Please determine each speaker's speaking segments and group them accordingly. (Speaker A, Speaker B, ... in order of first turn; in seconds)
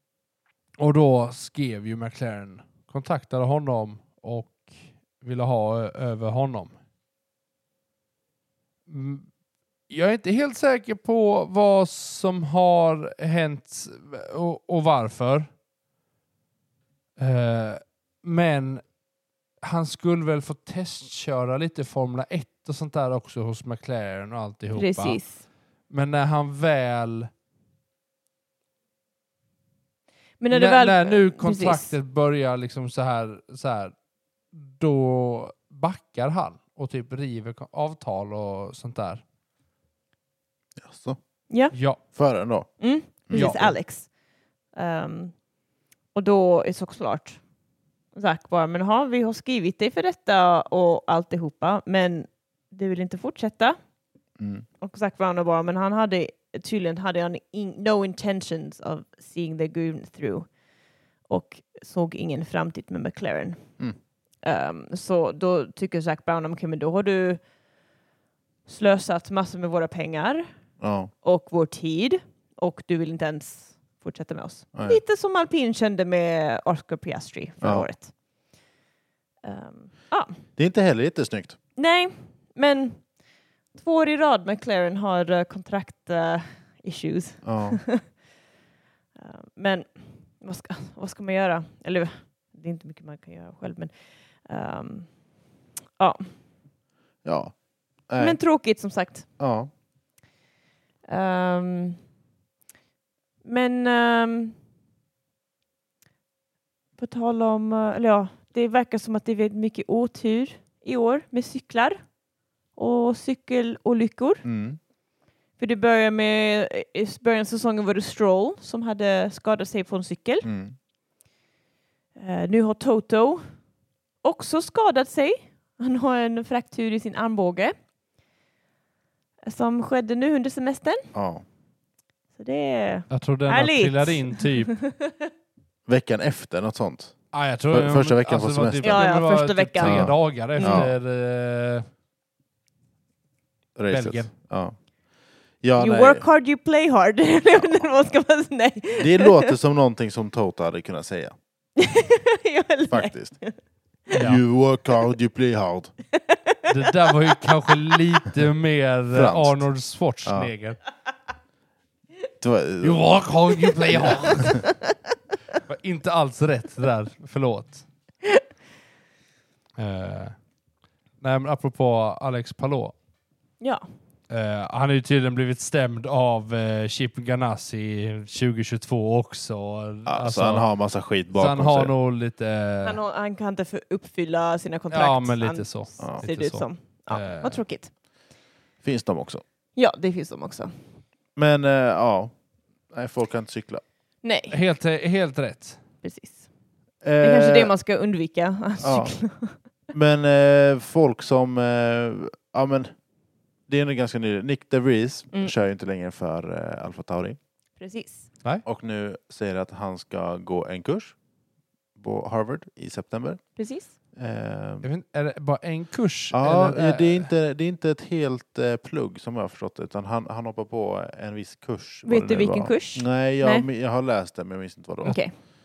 Speaker A: 0.8-6.8, 8.9-9.3, 9.9-15.5, 17.2-18.8, 19.6-25.2, 25.9-27.3, 30.5-33.9, 34.5-39.2, 41.7-42.0, 43.3-43.8, 133.1-134.7, 137.3-141.9, 143.9-144.3, 154.1-154.4, 156.7-160.8, 162.8-164.7, 165.7-167.8, 169.8-170.4, 171.2-172.9, 174.3-180.7, 181.3-183.0, 184.9-187.6, 194.5-195.8, 214.8-217.3
Speaker B: 24.8-25.4, 30.4-31.9, 42.8-44.1, 44.7-45.3, 46.1-47.4, 48.1-53.8, 54.8-60.5, 61.3-63.6, 64.4-67.4, 68.7-70.5, 71.2-78.1, 79.4-80.4, 81.8-83.0, 83.8-88.0, 89.2-95.1, 96.0-96.3, 98.2-99.3, 101.1-102.0, 103.4-104.6, 107.0-112.0, 112.8-114.4, 115.6-120.5, 122.2-123.5, 124.2-127.8, 129.5-131.1, 132.4-135.3, 138.8-140.9, 145.8-149.6, 151.8-153.6, 156.1-157.1, 157.7-158.0, 164.4-164.7, 182.8-187.9, 189.8-190.8, 194.2-194.6, 196.0-196.5, 197.2-199.6, 207.8-208.3, 213.6-213.9, 222.1-223.7, 225.1-225.3
Speaker C: 40.8-41.2, 42.1-42.7, 43.3-43.7, 54.4-54.6, 70.8-71.1, 74.8-75.0, 80.6-81.6, 87.4-87.8, 97.2-97.5, 98.1-98.4, 99.4-99.7, 114.4-114.8, 120.4-120.8, 131.1-131.4, 135.9-137.2, 137.7-139.1, 139.8-140.9, 143.8-144.8, 145.6-146.2, 147.5-148.1, 149.0-151.4, 152.9-153.4, 154.1-155.9, 159.1-159.6, 160.3-160.5, 162.4-163.2, 163.9-164.6, 180.1-181.9, 188.8-189.4, 191.4-192.3, 192.9-193.8, 197.0-197.7, 198.8-199.2, 199.9-202.9, 203.7-207.4, 208.7-211.2, 212.0-213.4, 214.2-214.9, 216.3-225.2